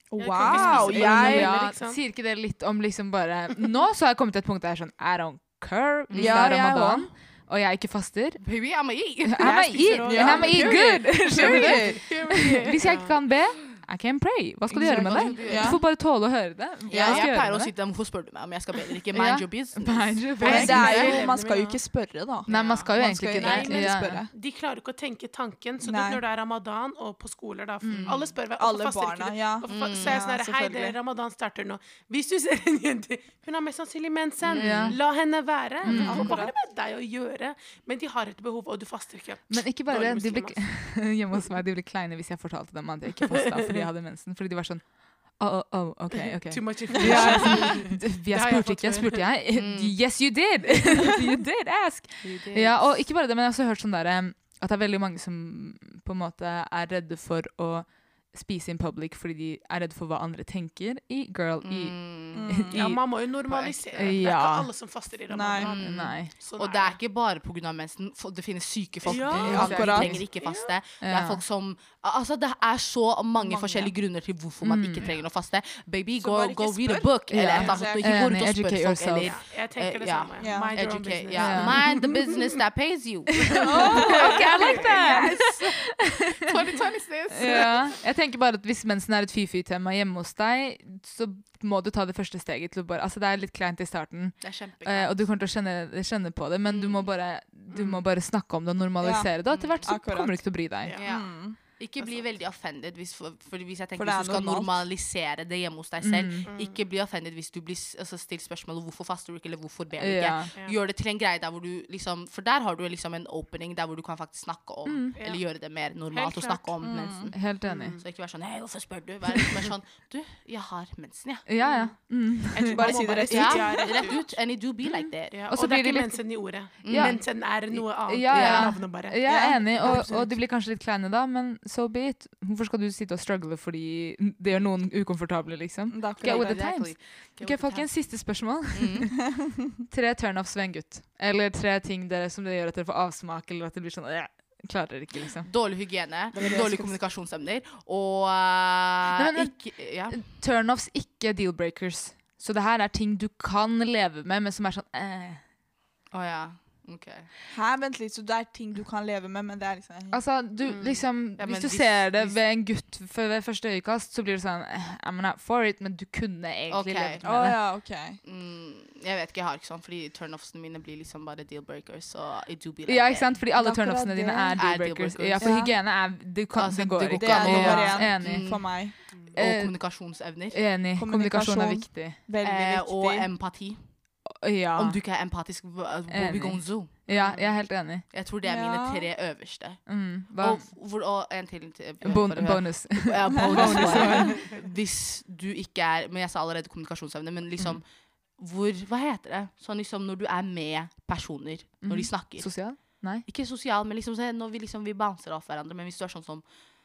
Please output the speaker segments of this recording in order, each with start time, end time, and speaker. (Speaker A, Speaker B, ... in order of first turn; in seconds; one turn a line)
Speaker A: 0.1-1.6
Speaker B: 0.2-2.0
Speaker C: 0.4-8.4
Speaker D: 0.6-0.9
Speaker D: 6.1-6.5
Speaker A: 6.2-7.1
Speaker D: 8.4-13.1
Speaker C: 9.2-17.7
Speaker B: 9.4-13.1
Speaker A: 10.0-11.9
Speaker D: 14.7-15.9
Speaker A: 14.8-15.9
Speaker D: 16.9-21.2
Speaker A: 16.9-17.3
Speaker C: 19.1-21.2
Speaker B: 20.4-21.8
Speaker A: 20.4-24.3
Speaker D: 22.5-22.9
Speaker C: 22.5-24.2
Speaker B: 23.3-40.8
Speaker A: 25.8-26.2
Speaker C: 27.8-28.3
Speaker D: 28.0-28.3
Speaker A: 28.6-31.0
Speaker D: 29.7-30.2
Speaker D: 34.4-35.0
Speaker C: 34.5-35.0
Speaker C: 35.8-36.5
Speaker A: 35.9-36.5
Speaker D: 36.0-36.4
Speaker C: 39.5-63.0
Speaker B: 43.3-43.9
Speaker B: 46.1-49.3
Speaker A: 47.0-47.5
Speaker D: 49.5-50.0
Speaker D: 52.2-52.8
Speaker D: 61.6-62.6
Speaker A: 62.3-63.0
Speaker B: 62.7-67.0
Speaker D: 63.5-64.2
Speaker C: 63.9-64.7
Speaker A: 65.3-65.8
Speaker D: 65.6-88.0
Speaker C: 65.8-66.3
Speaker B: 69.0-70.8
Speaker C: 69.3-70.3
Speaker A: 69.4-70.2
Speaker C: 71.0-71.4
Speaker A: 73.4-73.9
Speaker C: 74.6-75.1
Speaker A: 76.2-78.3
Speaker C: 77.3-79.4
Speaker B: 77.5-77.8
Speaker B: 79.2-82.3
Speaker A: 80.4-80.8
Speaker C: 81.3-82.0
Speaker C: 83.5-86.4
Speaker A: 83.6-84.5
Speaker B: 83.7-85.2
Speaker C: 87.3-101.0
Speaker D: 94.4-95.3
Speaker D: 96.7-97.1
Speaker A: 99.0-101.6
Speaker D: 99.5-100.0
Speaker D: 100.9-121.5
Speaker B: 102.0-102.3
Speaker A: 104.0-104.8
Speaker C: 106.0-106.5
Speaker B: 106.5-106.8
Speaker C: 110.0-110.5
Speaker C: 114.8-115.2
Speaker B: 115.2-116.7
Speaker A: 116.8-117.3
Speaker C: 117.3-118.0
Speaker B: 117.6-118.0
Speaker C: 121.5-123.2
Speaker B: 121.6-122.0
Speaker B: 122.5-124.4
Speaker A: 122.7-124.1
Speaker D: 123.3-125.4
Speaker C: 124.8-145.5
Speaker B: 125.3-130.1
Speaker D: 126.8-127.3
Speaker D: 128.3-128.8
Speaker A: 129.2-130.3
Speaker A: 135.9-136.7
Speaker D: 136.2-137.9
Speaker D: 138.7-139.1
Speaker D: 145.4-150.3
Speaker A: 146.3-147.0
Speaker C: 149.1-155.4
Speaker D: 156.1-157.3
Speaker A: 157.5-160.2
Speaker C: 160.1-167.6
Speaker B: 160.7-161.0
Speaker D: 161.4-162.4
Speaker D: 166.7-167.3
Speaker A: 167.2-168.2
Speaker D: 168.2-173.4
Speaker C: 172.9-178.7
Speaker A: 173.5-174.7
Speaker D: 174.6-175.7
Speaker A: 175.4-175.8
Speaker D: 176.5-180.6
Speaker A: 177.2-179.0
Speaker C: 179.3-182.2
Speaker A: 181.0-183.3
Speaker D: 182.4-183.9
Speaker C: 184.3-185.0
Speaker D: 184.8-186.9
Speaker C: 186.1-188.1
Speaker B: 187.1-187.5
Speaker D: 188.1-206.5
Speaker A: 188.4-189.1
Speaker C: 189.9-190.7
Speaker C: 192.0-194.5
Speaker A: 193.6-194.1
Speaker B: 193.7-194.5
Speaker C: 201.8-203.3